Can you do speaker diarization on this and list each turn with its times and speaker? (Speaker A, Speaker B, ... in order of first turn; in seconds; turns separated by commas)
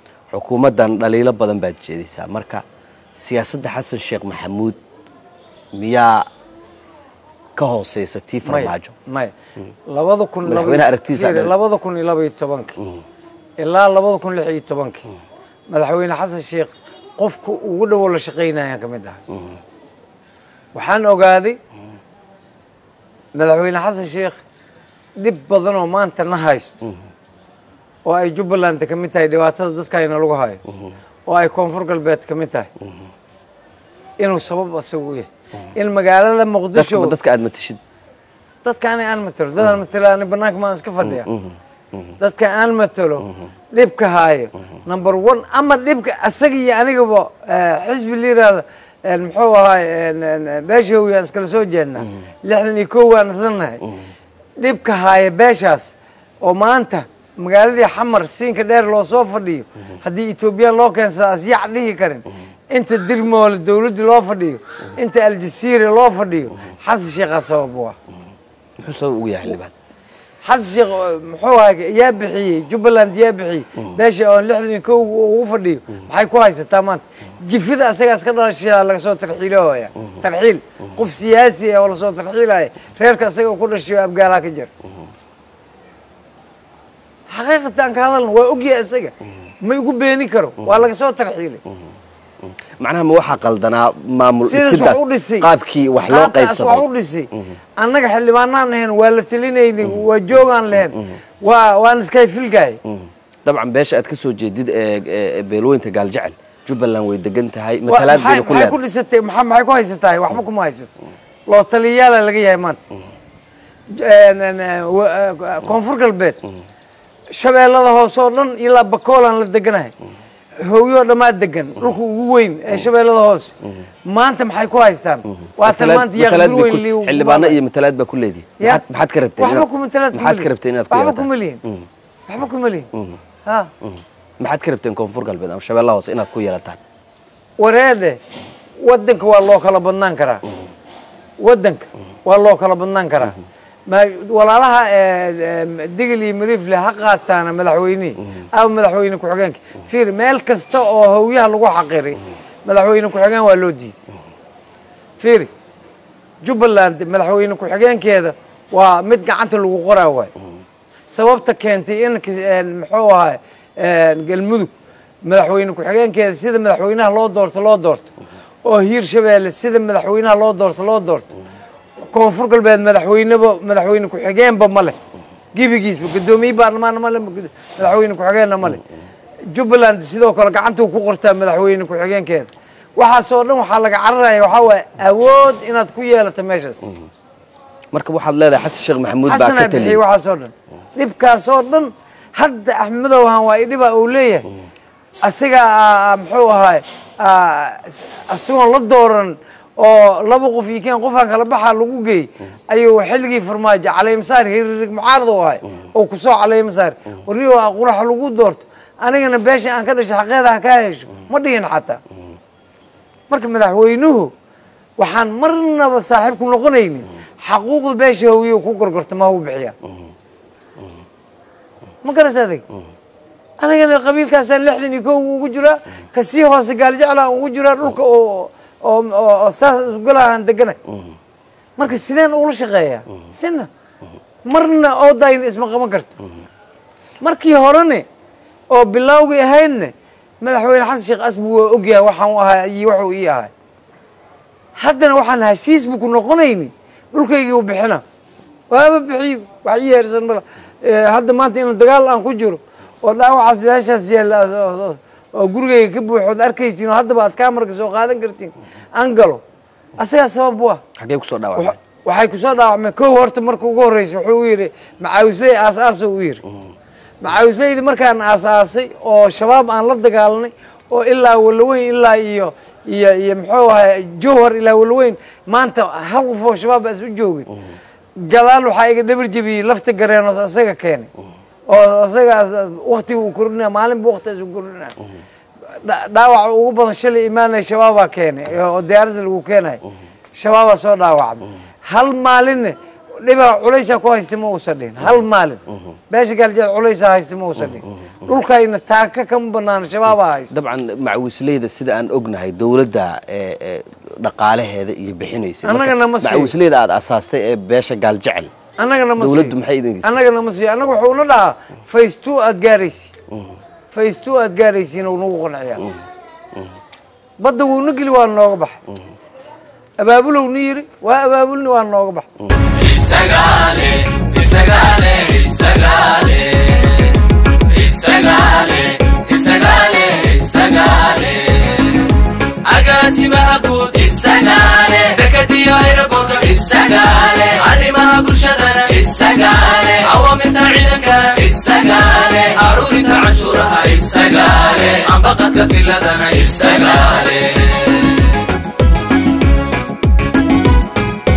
Speaker A: 0.3-2.6, Speaker A: 3.2-4.8, Speaker A: 5.7-6.3, Speaker A: 7.5-8.9, Speaker B: 8.4-9.3, Speaker B: 9.9-12.8, Speaker A: 10.4-11.5, Speaker B: 13.6-15.1, Speaker B: 15.7-19.2, Speaker B: 20.7-21.6, Speaker B: 23.3-24.4, Speaker B: 25.2-26.8, Speaker B: 28.0-30.6, Speaker B: 31.2-32.7, Speaker B: 34.2-37.1, Speaker A: 36.7-37.8, Speaker B: 38.6-41.3, Speaker B: 42.2-53.8, Speaker B: 54.6-68.0, Speaker A: 68.8-69.7, Speaker B: 70.4-84.7, Speaker B: 87.3-91.6, Speaker A: 92.8-96.8, Speaker B: 94.4-95.5, Speaker B: 96.1-102.8, Speaker A: 103.5-108.8, Speaker B: 107.9-110.9, Speaker B: 111.5-112.8, Speaker B: 113.9-116.4, Speaker B: 117.3-119.9, Speaker B: 120.6-123.5, Speaker B: 124.1-127.6, Speaker A: 125.6-131.8, Speaker B: 129.4-131.6, Speaker B: 132.3-132.9, Speaker A: 134.4-136.8, Speaker B: 137.6-138.2, Speaker B: 138.8-140.4, Speaker B: 141.4-143.3, Speaker B: 143.9-153.9, Speaker B: 155.2-155.5, Speaker B: 156.4-160.3, Speaker B: 161.1-164.7, Speaker B: 165.2-168.1, Speaker B: 168.6-171.3, Speaker B: 172.1-174.9, Speaker B: 175.5-178.8, Speaker B: 179.5-186.8, Speaker A: 187.9-190.0, Speaker B: 189.2-194.5, Speaker B: 195.2-212.0, Speaker B: 213.3-214.3, Speaker B: 215.0-219.8, Speaker B: 222.0-222.6, Speaker B: 223.6-230.8, Speaker B: 231.8-233.7, Speaker B: 234.4-236.2, Speaker B: 237.2-238.0, Speaker B: 238.7-243.5, Speaker B: 244.8-248.0, Speaker B: 248.7-259.4, Speaker B: 260.0-260.8, Speaker A: 261.0-261.8, Speaker B: 261.5-266.4, Speaker B: 267.2-277.5, Speaker B: 278.2-281.1, Speaker B: 281.7-284.9, Speaker B: 285.8-289.8, Speaker B: 290.3-300.5, Speaker A: 300.5-308.5, Speaker B: 305.6-306.5, Speaker B: 308.8-313.1, Speaker A: 309.2-310.1, Speaker B: 313.9-315.8, Speaker B: 317.4-318.8, Speaker B: 320.0-322.2, Speaker C: 322.7-332.1, Speaker C: 332.6-348.4